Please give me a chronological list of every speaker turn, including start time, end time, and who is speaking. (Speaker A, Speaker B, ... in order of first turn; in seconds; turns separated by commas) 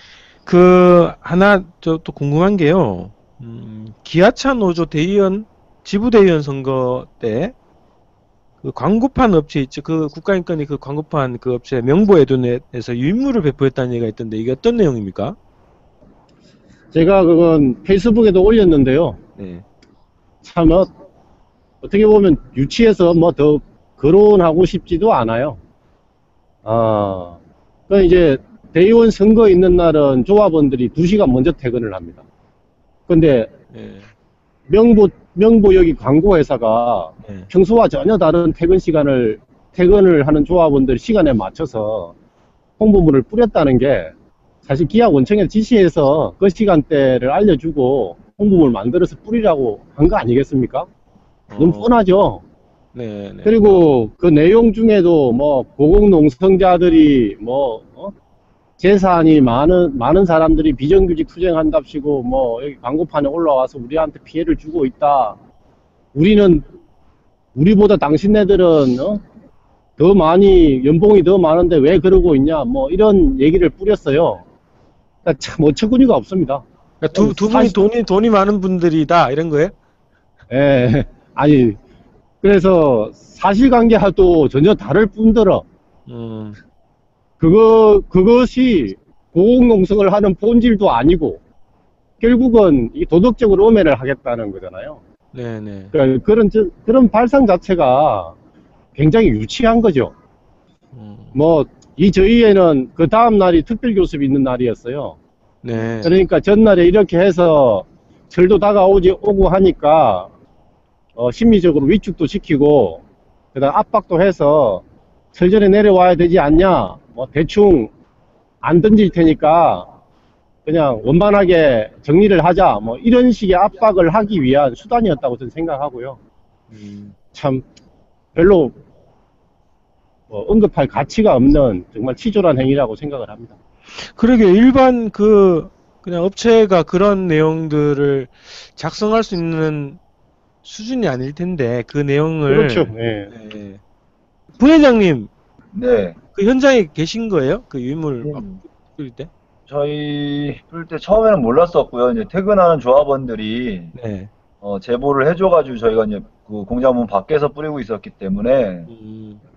Speaker A: 0.4-7.5, Speaker A: 8.6-15.4, Speaker B: 16.9-19.2, Speaker A: 19.4-19.6, Speaker B: 20.4-20.9, Speaker B: 21.8-25.6, Speaker B: 26.6-27.4, Speaker B: 27.9-32.2, Speaker B: 33.1-33.5, Speaker A: 33.7-34.1, Speaker B: 34.7-42.1, Speaker A: 37.2-37.5, Speaker B: 42.8-44.1, Speaker B: 44.6-50.9, Speaker A: 51.5-51.9, Speaker B: 51.5-52.4, Speaker A: 52.9-53.8, Speaker B: 53.4-58.1, Speaker B: 58.8-65.4, Speaker B: 66.1-66.7, Speaker B: 67.5-69.2, Speaker B: 70.0-74.4, Speaker B: 75.2-77.8, Speaker A: 77.0-79.7, Speaker B: 80.5-81.8, Speaker B: 82.4-85.6, Speaker A: 86.1-86.6, Speaker B: 87.4-91.4, Speaker B: 92.2-95.0, Speaker A: 95.3-95.9, Speaker B: 95.9-98.3, Speaker B: 99.0-100.1, Speaker A: 100.9-101.3, Speaker B: 101.3-105.2, Speaker A: 105.6-106.2, Speaker B: 106.0-110.3, Speaker B: 111.2-113.0, Speaker B: 113.5-114.8, Speaker B: 115.3-117.9, Speaker B: 118.6-119.9, Speaker B: 120.7-126.2, Speaker A: 126.7-127.1, Speaker B: 127.3-127.6, Speaker B: 128.3-128.8, Speaker B: 130.3-133.6, Speaker A: 133.9-140.0, Speaker A: 140.6-143.8, Speaker B: 142.5-143.3, Speaker A: 144.6-145.3, Speaker C: 145.7-146.2, Speaker A: 146.3-149.3, Speaker C: 148.2-148.6, Speaker C: 149.7-153.9, Speaker A: 153.9-154.3, Speaker C: 154.6-158.9, Speaker A: 158.9-159.4